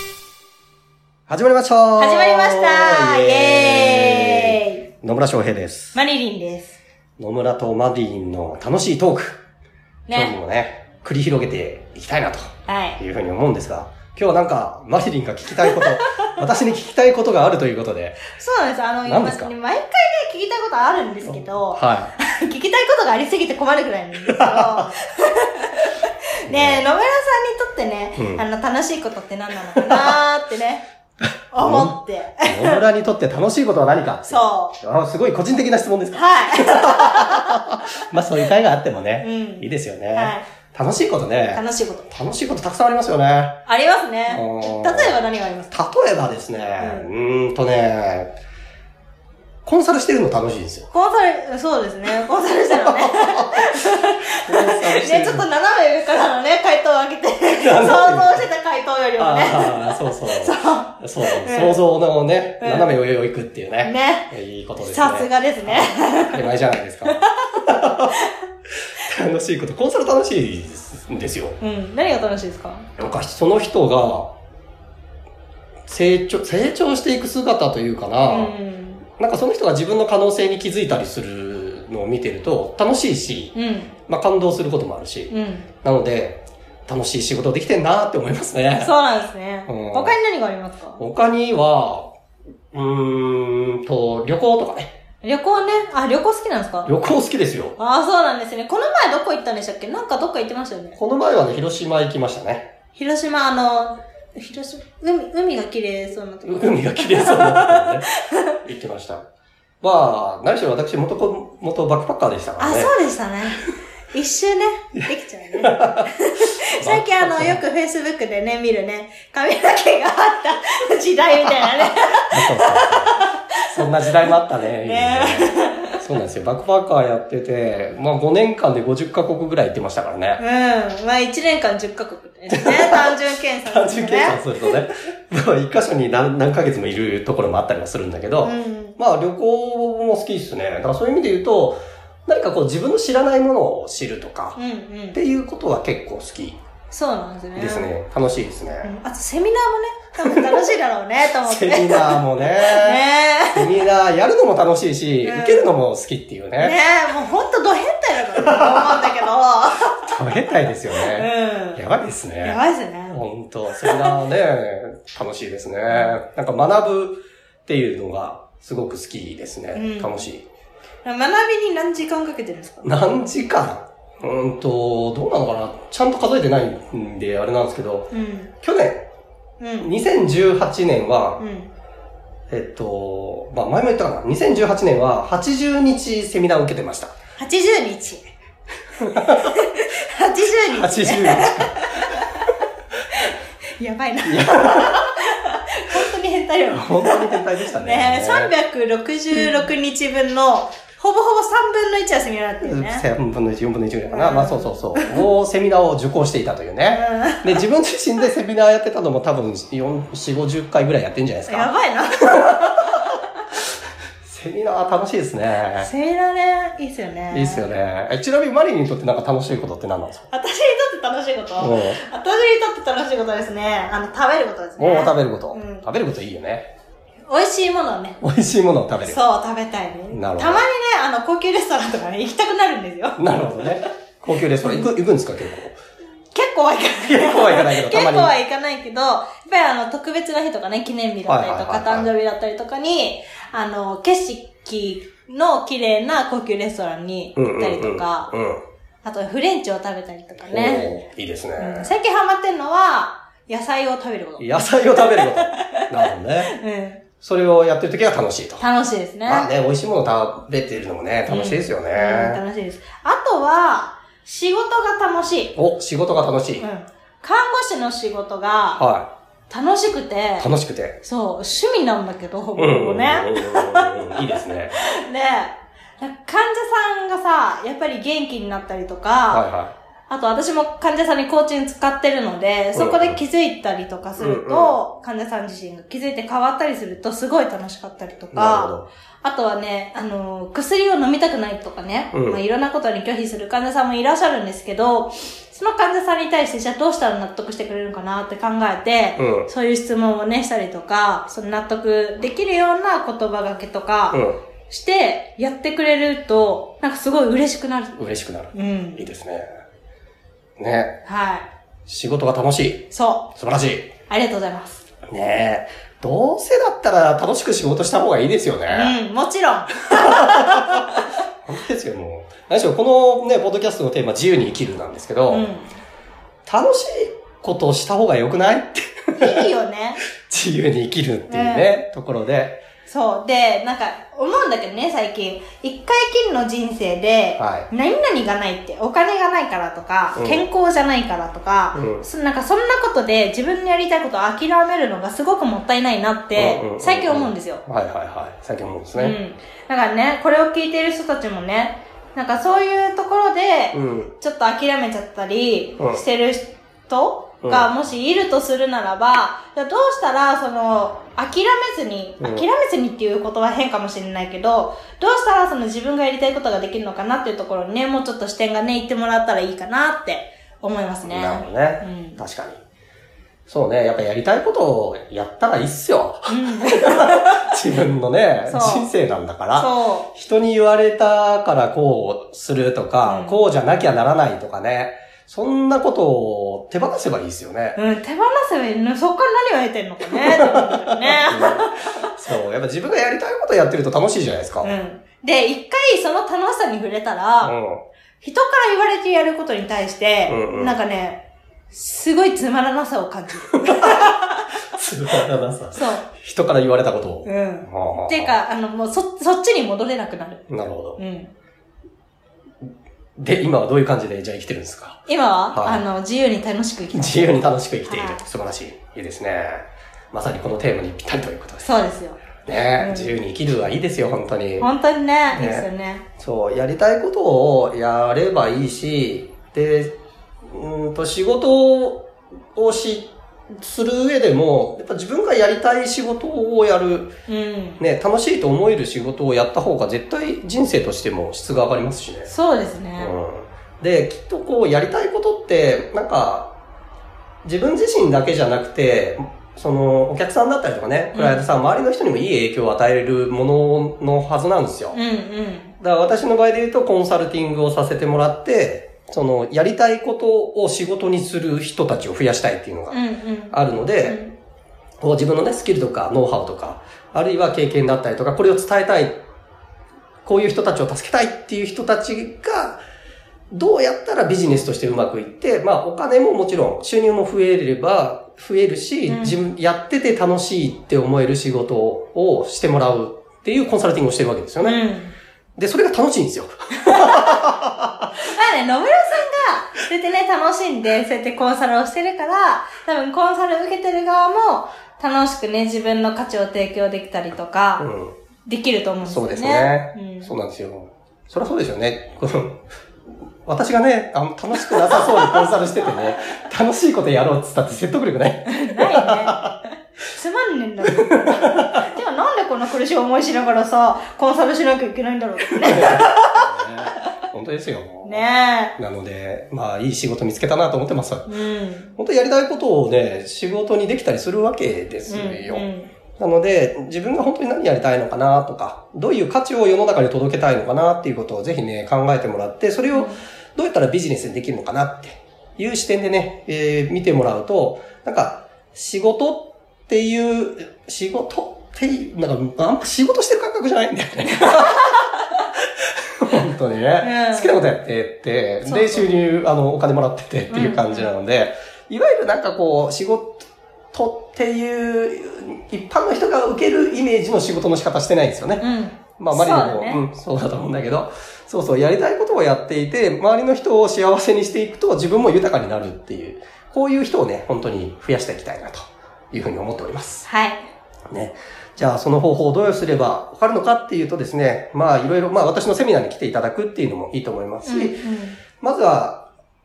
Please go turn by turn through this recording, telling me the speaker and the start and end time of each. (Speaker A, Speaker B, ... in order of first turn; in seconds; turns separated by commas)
Speaker A: 1.3-6.0, Speaker B: 2.0-4.8, Speaker B: 5.9-6.8, Speaker A: 7.2-9.4, Speaker B: 10.1-10.3, Speaker A: 10.1-18.2, Speaker B: 12.7-13.0, Speaker B: 15.7-16.0, Speaker B: 18.4-30.9, Speaker A: 19.1-19.5, Speaker A: 21.3-22.1, Speaker A: 24.3-24.9, Speaker A: 26.5-26.8, Speaker A: 28.2-28.4, Speaker A: 29.8-30.1, Speaker B: 31.5-32.8, Speaker A: 31.6-43.6, Speaker B: 34.3-34.8, Speaker B: 36.1-37.5, Speaker B: 39.2-40.5, Speaker B: 41.5-42.1, Speaker B: 43.6-45.7, Speaker A: 44.3-45.1, Speaker A: 45.7-48.3, Speaker B: 46.8-47.1, Speaker A: 49.6-50.9, Speaker B: 50.9-61.8, Speaker A: 52.7-55.4, Speaker A: 57.6-58.4, Speaker A: 59.2-68.1, Speaker B: 62.6-62.9, Speaker B: 63.8-66.5, Speaker B: 67.0-68.3, Speaker A: 69.0-71.6, Speaker B: 71.6-72.9, Speaker A: 73.0-74.3, Speaker A: 75.9-78.5, Speaker B: 78.2-79.0, Speaker A: 79.2-83.5, Speaker B: 83.5-83.9, Speaker A: 84.1-88.9, Speaker B: 85.3-85.7, Speaker B: 88.8-91.0, Speaker A: 89.7-90.1, Speaker A: 91.0-92.1, Speaker A: 92.7-94.9, Speaker B: 95.2-96.9, Speaker A: 96.8-97.8, Speaker B: 97.8-101.0, Speaker A: 101.0-102.7, Speaker B: 102.9-108.6, Speaker A: 106.4-108.1, Speaker A: 108.6-109.2, Speaker A: 109.8-112.9, Speaker B: 112.6-126.0, Speaker A: 115.6-116.1, Speaker A: 116.8-117.6, Speaker A: 122.3-130.4, Speaker B: 130.4-134.8, Speaker A: 132.5-144.6, Speaker B: 138.4-139.0, Speaker B: 144.6-145.2, Speaker A: 145.1-146.6, Speaker B: 146.9-147.9, Speaker A: 147.6-148.9, Speaker B: 148.8-153.7, Speaker A: 150.2-150.7, Speaker A: 151.4-153.0, Speaker A: 153.5-156.8, Speaker B: 155.2-155.7, Speaker B: 156.6-160.1, Speaker A: 158.4-158.8, Speaker A: 160.0-170.4, Speaker B: 160.9-161.8, Speaker B: 162.4-163.2, Speaker B: 163.8-164.2, Speaker B: 165.9-166.1, Speaker B: 169.7-170.1, Speaker B: 171.0-172.8, Speaker A: 172.8-179.0, Speaker B: 178.1-178.5, Speaker B: 179.6-179.9, Speaker A: 179.8-181.4, Speaker B: 181.4-181.7, Speaker A: 182.5-187.2, Speaker B: 187.4-188.2, Speaker A: 189.0-189.5, Speaker B: 189.2-192.4, Speaker A: 190.7-192.1, Speaker B: 193.1-203.0, Speaker A: 194.2-195.0, Speaker A: 196.7-198.5, Speaker A: 202.6-211.7, Speaker B: 204.1-205.2, Speaker B: 206.9-207.6, Speaker B: 211.5-213.0, Speaker A: 212.3-212.9, Speaker A: 214.2-215.9, Speaker B: 215.8-217.7, Speaker A: 217.3-220.2, Speaker B: 220.3-225.9, Speaker A: 221.6-222.0, Speaker A: 224.8-226.7, Speaker B: 227.2-228.2, Speaker A: 228.2-229.2, Speaker B: 229.0-233.2, Speaker A: 230.1-230.6, Speaker A: 233.2-235.8, Speaker B: 236.3-248.3, Speaker A: 237.0-238.3, Speaker A: 241.3-242.1, Speaker A: 247.3-248.6, Speaker B: 249.0-250.9, Speaker A: 250.5-251.9, Speaker B: 251.6-255.9, Speaker A: 254.4-256.5, Speaker B: 256.5-257.0, Speaker A: 257.2-258.6, Speaker B: 258.6-259.5, Speaker A: 259.2-262.4, Speaker B: 261.3-265.5, Speaker A: 265.5-266.6, Speaker B: 266.6-268.8, Speaker A: 268.8-269.1, Speaker B: 269.5-270.5, Speaker A: 270.4-271.0, Speaker B: 271.0-279.4, Speaker A: 272.6-274.8, Speaker A: 279.3-279.7, Speaker B: 280.1-308.0, Speaker A: 282.7-283.2, Speaker A: 284.2-284.8, Speaker A: 288.3-288.9, Speaker A: 292.1-292.4, Speaker A: 299.2-299.5, Speaker A: 304.1-304.4, Speaker A: 307.9-309.4, Speaker B: 308.5-309.1, Speaker A: 310.6-311.0, Speaker B: 311.1-311.5, Speaker A: 311.9-313.9, Speaker B: 312.9-313.3, Speaker B: 314.1-314.8, Speaker A: 315.1-318.9, Speaker B: 318.7-321.0, Speaker A: 320.0-320.8, Speaker A: 321.4-325.5, Speaker B: 325.3-325.8, Speaker A: 326.4-329.4, Speaker B: 329.1-330.0, Speaker A: 330.2-332.6, Speaker B: 331.3-331.8, Speaker B: 332.9-347.6, Speaker A: 337.4-337.7, Speaker A: 340.1-340.4, Speaker A: 341.7-342.1, Speaker A: 346.3-349.1, Speaker B: 348.9-372.2, Speaker A: 353.7-354.1, Speaker A: 357.4-357.7, Speaker A: 362.2-362.4, Speaker A: 371.0-372.6, Speaker A: 373.5-387.8, Speaker B: 376.3-377.6, Speaker B: 378.5-378.9, Speaker B: 379.5-380.1, Speaker B: 383.0-383.4, Speaker B: 387.8-392.1, Speaker A: 390.1-394.7, Speaker B: 394.6-397.5, Speaker A: 397.4-397.8, Speaker B: 398.2-404.5, Speaker A: 400.3-400.8, Speaker A: 403.6-404.1, Speaker A: 404.7-408.4, Speaker B: 405.7-406.1, Speaker B: 407.2-410.4, Speaker A: 410.5-411.0, Speaker B: 411.0-411.3, Speaker A: 413.2-415.0, Speaker B: 415.1-418.2, Speaker A: 415.5-415.8, Speaker A: 416.9-421.7, Speaker B: 421.6-423.1, Speaker A: 422.4-424.7, Speaker B: 424.6-426.1, Speaker A: 425.3-425.7, Speaker A: 426.2-429.9, Speaker A: 430.5-437.1, Speaker B: 437.3-437.8, Speaker A: 437.8-442.3, Speaker B: 442.2-443.1, Speaker A: 443.0-446.5, Speaker A: 447.4-455.0, Speaker B: 451.1-451.4, Speaker B: 454.9-455.8, Speaker A: 455.8-463.0, Speaker B: 462.9-464.3, Speaker A: 463.5-464.2, Speaker A: 465.0-469.2, Speaker A: 470.2-472.8, Speaker A: 473.5-484.8, Speaker B: 479.1-479.4, Speaker B: 484.6-485.1, Speaker A: 485.6-487.9, Speaker B: 486.9-487.4, Speaker B: 488.2-497.9, Speaker A: 497.8-498.1, Speaker B: 498.4-500.3, Speaker A: 499.0-502.6, Speaker A: 503.4-509.6, Speaker B: 504.9-505.2, Speaker B: 508.4-509.6, Speaker B: 510.1-516.5, Speaker A: 515.6-518.2, Speaker B: 518.0-518.8, Speaker A: 518.8-521.3, Speaker B: 521.3-522.0, Speaker A: 522.0-545.0, Speaker B: 525.1-525.9, Speaker B: 532.9-533.2, Speaker B: 544.4-545.0, Speaker A: 546.2-558.6, Speaker B: 547.0-547.5, Speaker B: 548.6-549.1, Speaker B: 550.5-551.1, Speaker B: 558.6-560.0, Speaker A: 559.2-570.3, Speaker B: 570.2-570.6, Speaker A: 571.1-578.0, Speaker B: 577.6-578.4, Speaker A: 578.6-579.3